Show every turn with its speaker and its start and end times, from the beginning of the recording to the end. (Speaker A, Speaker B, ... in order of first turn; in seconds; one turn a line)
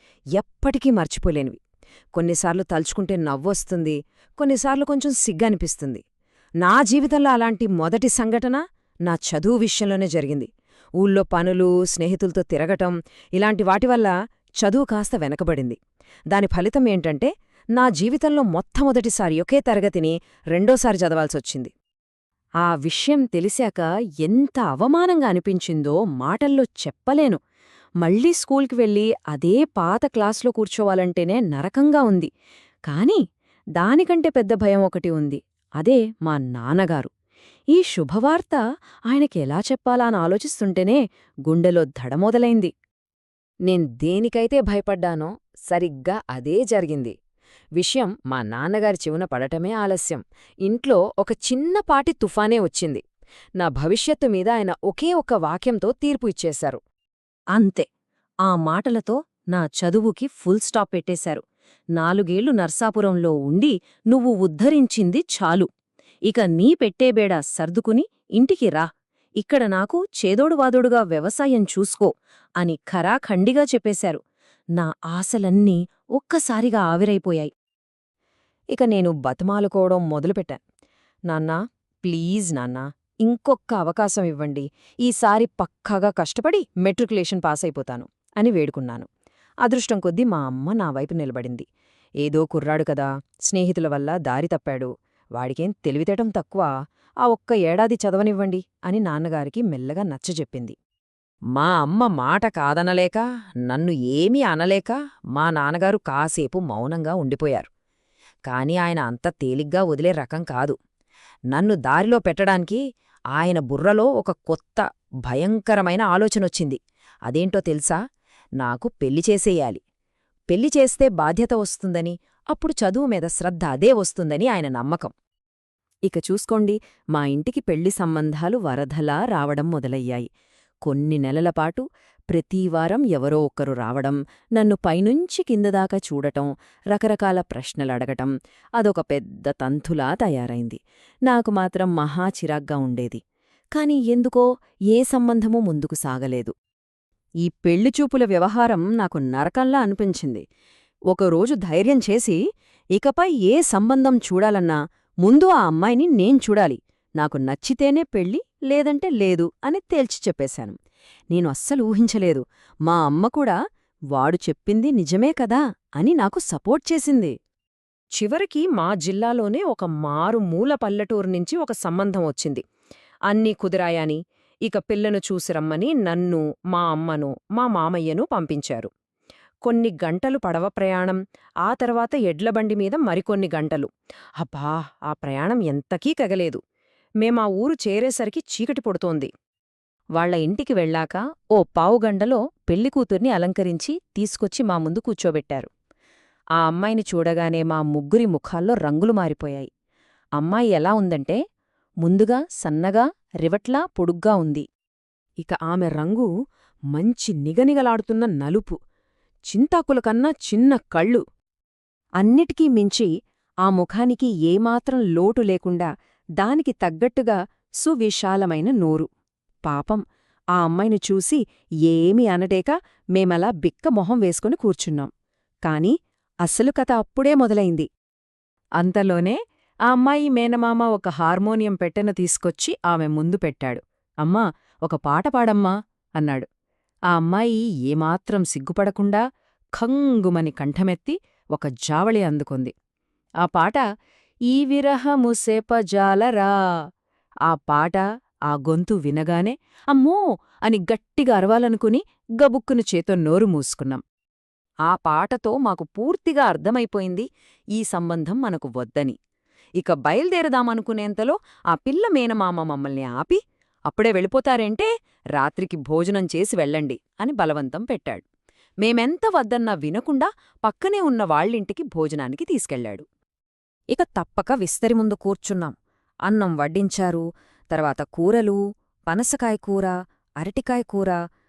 Speaker A: 0.4-1.6
Speaker A: 2.1-6.0
Speaker A: 6.6-15.8
Speaker A: 16.3-21.7
Speaker A: 22.6-27.4
Speaker A: 28.0-32.3
Speaker A: 32.9-33.2
Speaker A: 33.8-37.1
Speaker A: 37.7-42.7
Speaker A: 43.7-47.1
Speaker A: 47.8-53.0
Speaker A: 53.6-56.8
Speaker A: 57.5-57.9
Speaker A: 58.5-61.4
Speaker A: 62.0-65.7
Speaker A: 66.3-68.9
Speaker A: 69.4-74.2
Speaker A: 74.8-77.5
Speaker A: 78.7-80.6
Speaker A: 81.3-89.1
Speaker A: 89.6-91.7
Speaker A: 92.2-96.7
Speaker A: 97.2-100.8
Speaker A: 101.6-107.7
Speaker A: 108.5-110.8
Speaker A: 111.5-112.8
Speaker A: 113.3-118.0
Speaker A: 118.6-119.8
Speaker A: 120.5-125.1
Speaker A: 126.1-130.3
Speaker A: 130.9-143.2
Speaker A: 143.8-146.5
Speaker A: 147.4-150.4
Speaker A: 151.1-152.4
Speaker A: 152.9-160.8
Speaker A: 161.3-163.6
Speaker A: 164.1-167.3
Speaker A: 168.2-172.6
Speaker A: 173.3-178.9
Speaker A: 179.7-186.6
Speaker A: 187.2-189.3
Speaker A: 190.2-195.7
Speaker A: 196.6-199.7
Speaker A: 200.4-201.4
Speaker A: 202.0-204.7
Speaker A: 205.4-206.3
Speaker A: 206.9-208.8
Speaker A: 209.5-211.2
Speaker A: 212.2-213.1
Speaker A: 213.7-219.1
Speaker A: 219.7-220.0
Speaker A: 220.6-225.1
Speaker A: 225.7-225.9
Speaker A: 226.4-227.9
Speaker A: 228.8-236.5
Speaker A: 237.1-239.2
Speaker A: 239.8-242.7
Speaker A: 243.4-243.8
Speaker A: 244.5-246.5
Speaker A: 247.5-254.0
Speaker A: 254.9-259.2
Speaker A: 259.8-268.2
Speaker A: 268.8-273.1
Speaker A: 273.9-275.8
Speaker A: 276.3-281.2